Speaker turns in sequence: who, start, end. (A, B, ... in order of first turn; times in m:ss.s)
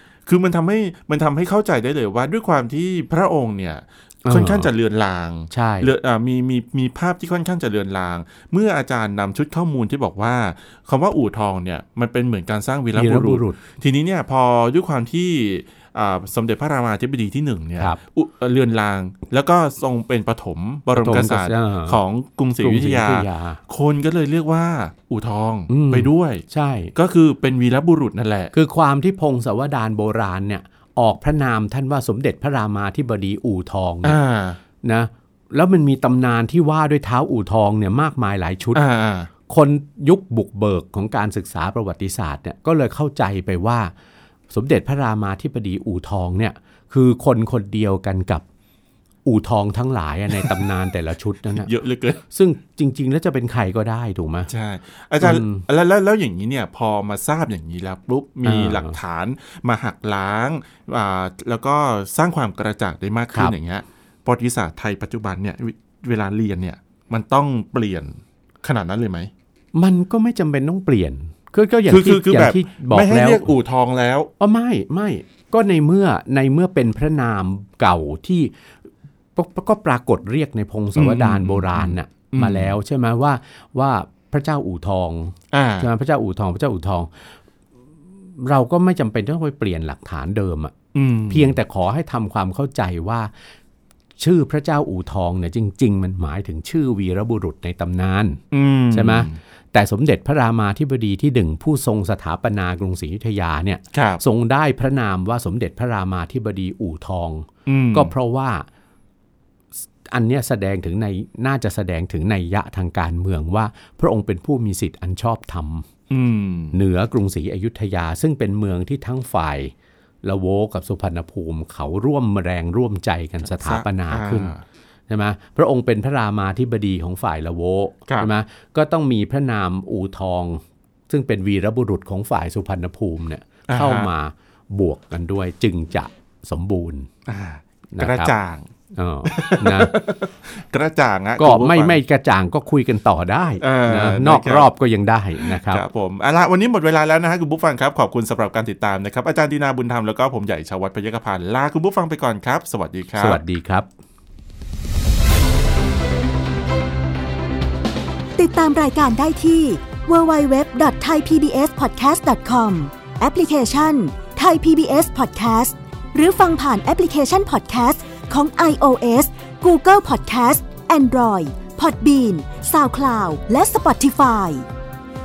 0:00.2-0:26.4 A
0:04.2-0:04.7 B
0:05.5-0:05.9 B
0:13.0-0:13.6 B
0:20.9-0:22.0 B
0:22.6-0:23.6 B
0:25.7-0:26.9 B
0:26.9-0:28.5 A
0:28.5-0:34.2 B
0:34.0-0:34.6 A
0:34.8-0:38.8 B
0:38.7-0:39.3 A
0:39.5-0:43.9 B
0:44.5-0:48.4 B
0:49.2-0:51.7 B
0:50.3-0:50.6 A
0:51.5-0:52.2 A
0:52.3-0:54.5 B
0:54.5-1:09.3 A
0:55.2-0:55.6 B
0:58.4-0:59.0 B
1:09.7-1:13.5 B
1:11.9-1:14.3 A
1:14.4-1:18.5 B
1:19.4-1:27.1 B
1:20.9-1:22.7 A
1:25.5-1:25.9 A
1:28.4-1:30.8 B
1:30.9-1:31.6 A
1:31.3-1:33.3 B
1:34.2-1:48.7 B
1:38.5-1:39.4 A
1:43.9-1:44.2 A
1:47.6-1:48.1 A
1:50.1-1:55.8 B
1:56.1-1:56.7 A
1:56.7-2:04.5 B
2:03.5-2:04.6 A
2:05.1-2:17.1 B
2:13.7-2:14.1 A
2:17.2-2:18.7 A
2:17.9-2:18.3 B
2:18.9-2:19.9 B
2:19.2-2:22.0 A
2:21.4-2:25.8 B
2:23.6-2:24.7 A
2:25.4-2:33.4 A
2:33.2-2:33.9 B
2:38.4-2:54.6 C